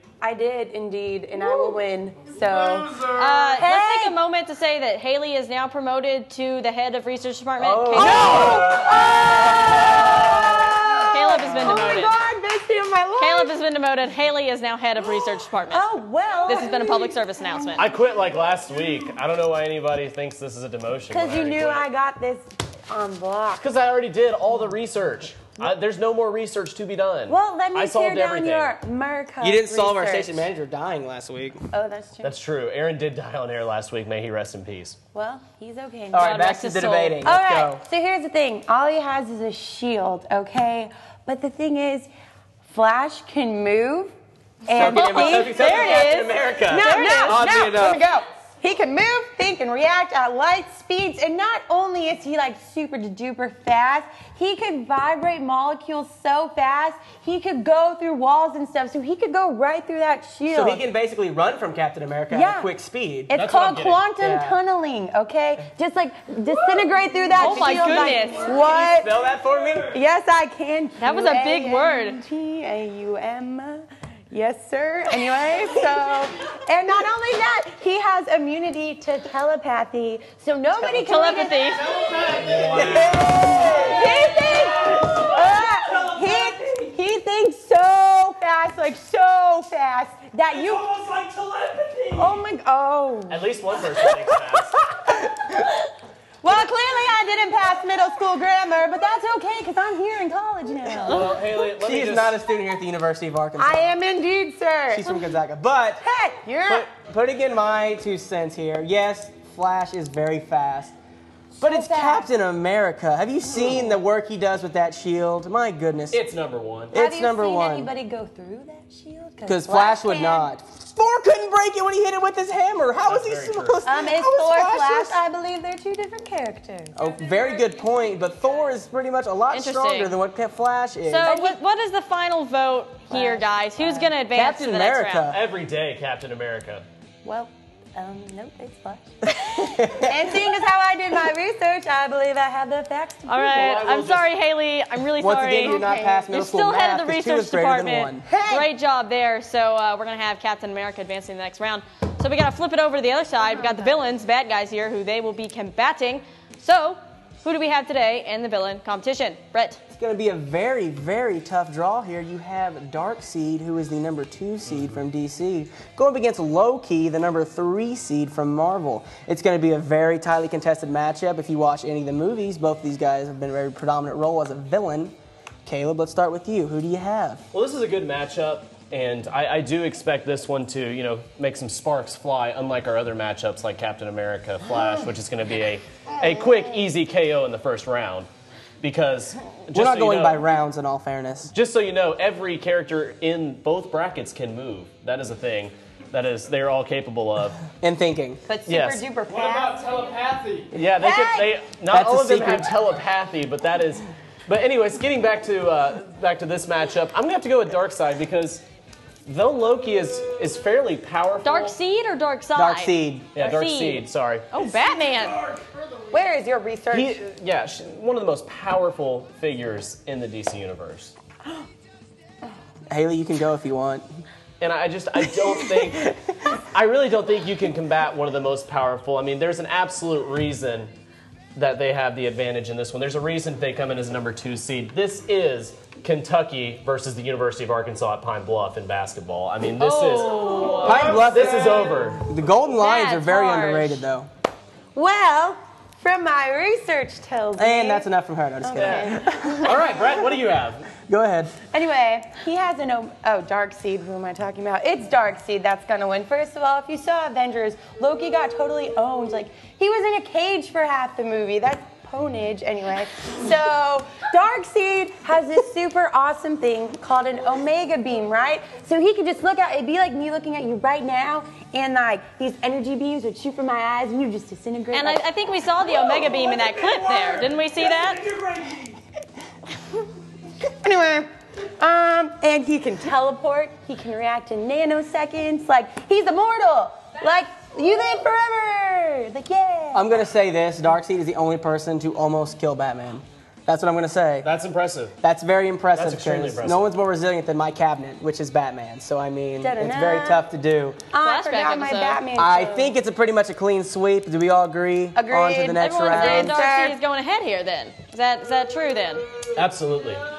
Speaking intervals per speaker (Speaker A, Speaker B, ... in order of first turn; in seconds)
Speaker A: 0.2-4.2, 7.9-13.5, 15.7-17.9, 21.1-23.6, 27.3-30.5, 31.7-32.3, 35.1-36.4, 37.2-42.1, 42.6-44.1, 44.6-60.8, 62.3-62.7, 63.3-69.2, 69.8-91.2, 92.1-93.4, 95.1-95.7, 96.4-101.5, 103.6-105.3, 106.0-106.9, 111.6-112.3, 113.5-113.9, 116.9-120.5, 123.8-127.0, 131.2-131.6, 133.1-134.2, 137.2-143.8, 145.7-146.3, 148.2-148.7, 153.4-154.0, 198.5-200.0, 201.0-201.5, 216.1-217.2, 244.9-248.1, 248.6-249.9, 251.7-275.2, 280.6-290.1, 299.6-300.4, 301.1-302.9, 305.1-307.0
Speaker B: 3.1-8.7, 11.0-12.2, 13.2-15.9, 16.5-17.9, 36.1-37.3, 44.8-47.5, 67.3-68.5, 71.0-72.2, 80.8-82.0, 129.5-130.1, 131.0-135.3, 143.3-159.8, 211.4-215.4, 239.8-241.2, 242.8-244.0, 274.9-278.4, 301.2-302.2, 305.8-309.2
Speaker C: 7.6-9.0, 29.4-31.6, 36.1-37.8, 44.7-48.0, 60.5-63.3, 64.2-64.6, 68.5-70.0, 82.3-84.2, 91.2-92.1, 101.7-103.9, 104.9-106.0, 106.6-110.9, 111.6-116.2, 116.9-117.9, 119.5-125.2, 126.9-131.3, 134.3-135.4, 139.3-140.2, 145.2-148.3, 159.9-175.1, 175.7-177.4, 189.7-191.5, 197.8-198.4, 201.9-202.7, 212.5-213.4, 222.9-224.0, 225.8-226.2, 240.8-244.3, 247.6-249.7, 251.0-251.5, 289.9-294.5, 295.2-301.0, 302.3-306.6
Speaker D: 17.8-21.9, 23.6-28.7, 32.2-35.0, 47.4-47.9, 63.3-64.1, 93.3-94.8, 101.0-102.4, 116.1-116.9, 123.0-123.8, 135.3-136.8, 143.7-144.2, 177.5-188.3, 188.8-190.5, 191.5-197.6, 198.7-199.0, 200.7-208.6, 209.2-211.7, 213.3-214.5, 216.9-221.1, 224.6-230.9, 231.5-242.2, 248.8-250.9, 294.4-295.1, 295.9-296.8, 309.5-310.2
Speaker E: 82.5-83.1, 199.3-200.7